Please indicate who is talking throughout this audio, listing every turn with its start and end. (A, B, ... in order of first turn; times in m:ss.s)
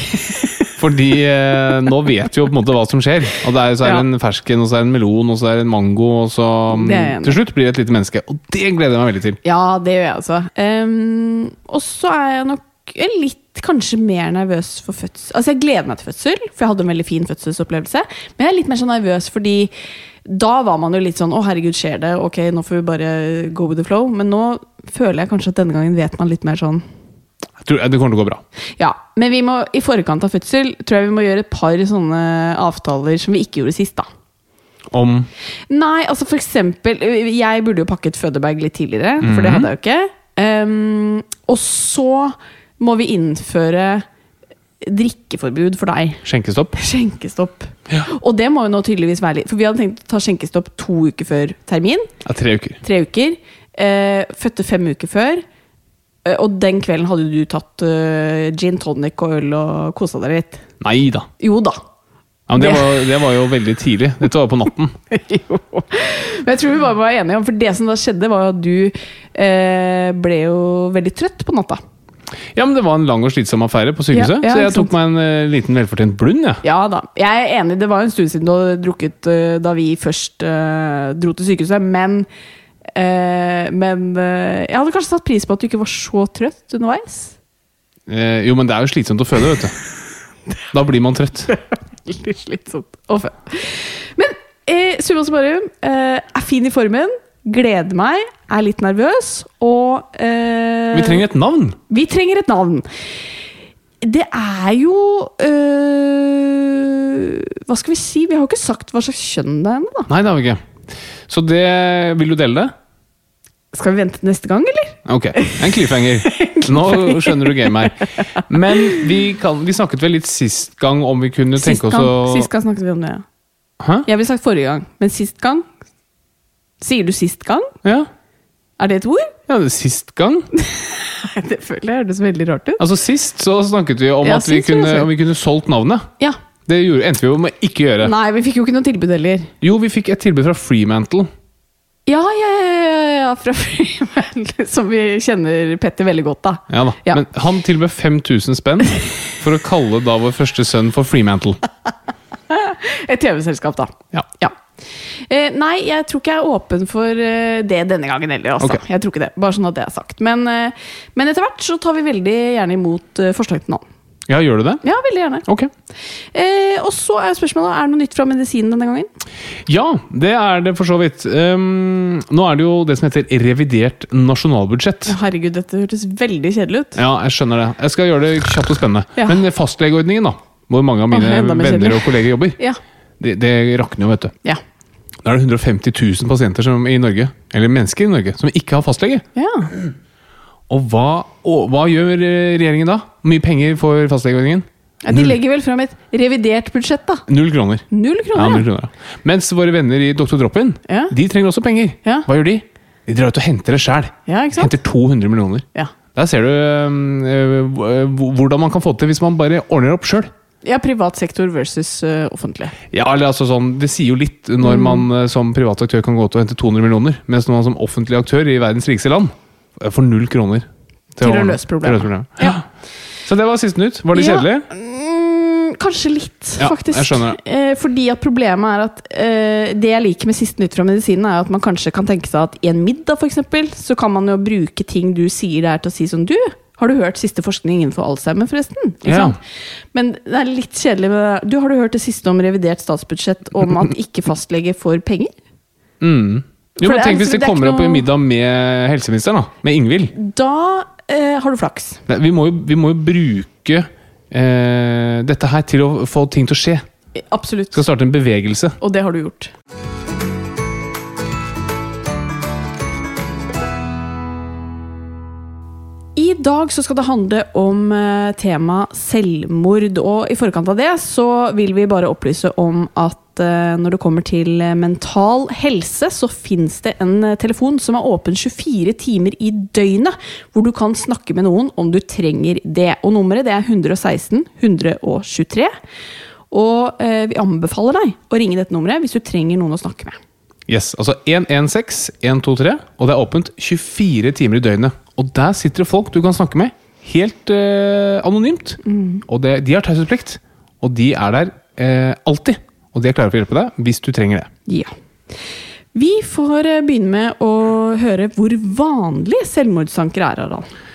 0:00.8-0:09.4 A
0:06.7-0:07.4 B
0:09.4-0:19.7 B
0:20.2-0:26.8 B
0:27.6-0:28.4 A
0:28.8-0:34.1 B
0:34.9-0:35.3 A
0:35.7-0:44.0 B
0:39.2-0:39.7 A
0:44.8-0:46.2 B
0:46.2-0:46.8 A
0:46.8-0:52.1 B
0:52.2-0:52.8 A
0:52.8-0:55.4 B
0:56.2-1:00.6 B
1:00.8-1:01.3 A
1:01.4-1:01.8 B
1:02.5-1:05.0 A
1:02.6-1:03.1 B
1:05.1-1:11.8 B
1:12.5-1:16.6 A
1:14.1-1:14.9 B
1:16.6-1:22.3 B
1:22.9-1:27.3 B
1:28.1-1:29.7 A
1:30.7-1:31.5 A
1:31.5-1:41.2 B
1:40.9-1:41.8 A
1:41.9-1:42.9 B
1:44.0-1:50.1 B
1:50.1-1:50.6 A
1:51.3-1:52.7 A
1:53.7-1:55.6 B
1:55.0-2:02.5 A
1:56.2-1:59.0 B
2:01.6-2:03.2 B
2:03.8-2:04.1 A
2:04.0-2:05.6 B
2:06.8-2:07.7 B
2:07.8-2:08.1 A
2:08.8-2:09.3 B
2:09.5-2:10.5 A
2:10.6-2:12.8 B
2:12.8-2:16.1 A
2:14.2-2:15.1 B
2:16.6-2:18.1 A
2:18.0-2:19.5 B
2:19.6-2:21.3 A
2:22.1-2:27.2 B
2:26.7-2:31.6 A
2:32.5-2:34.6 B
2:35.1-2:43.8 B
2:44.3-2:44.8 A
2:44.8-2:45.4 B
2:45.4-2:45.7 A
2:46.3-2:49.1 B
2:49.7-2:55.2 A
2:55.1-2:57.0 B
2:57.0-3:02.6 A
2:59.2-2:59.4 B
3:01.1-3:02.8 B
3:03.2-3:04.3 A
3:05.2-3:09.2 A
3:09.4-3:09.7 B
3:10.7-3:15.4 A
3:15.0-3:17.2 B
3:17.3-3:30.3 A
3:17.9-3:18.6 B
3:20.9-3:21.1 B
3:24.3-3:24.7 B
3:30.6-3:32.7 B
3:32.9-3:42.6 A
3:34.6-3:35.0 B
3:41.2-3:42.6 B
3:43.2-3:44.7 A
3:44.1-3:59.4 B
3:46.6-3:47.4 A
3:59.0-3:59.4 A
3:59.9-4:05.3 B
4:06.0-4:10.1 A
4:06.8-4:08.1 B
4:10.1-4:12.0 B
4:12.1-4:16.8 A
4:17.3-4:17.8 B
4:17.7-4:18.8 A
4:18.8-4:19.5 B
4:26.2-4:45.7 B
4:46.5-4:50.2 B
4:50.7-5:04.5 A
4:58.8-4:59.2 B
5:04.7-5:04.9 B
5:05.9-5:10.7 B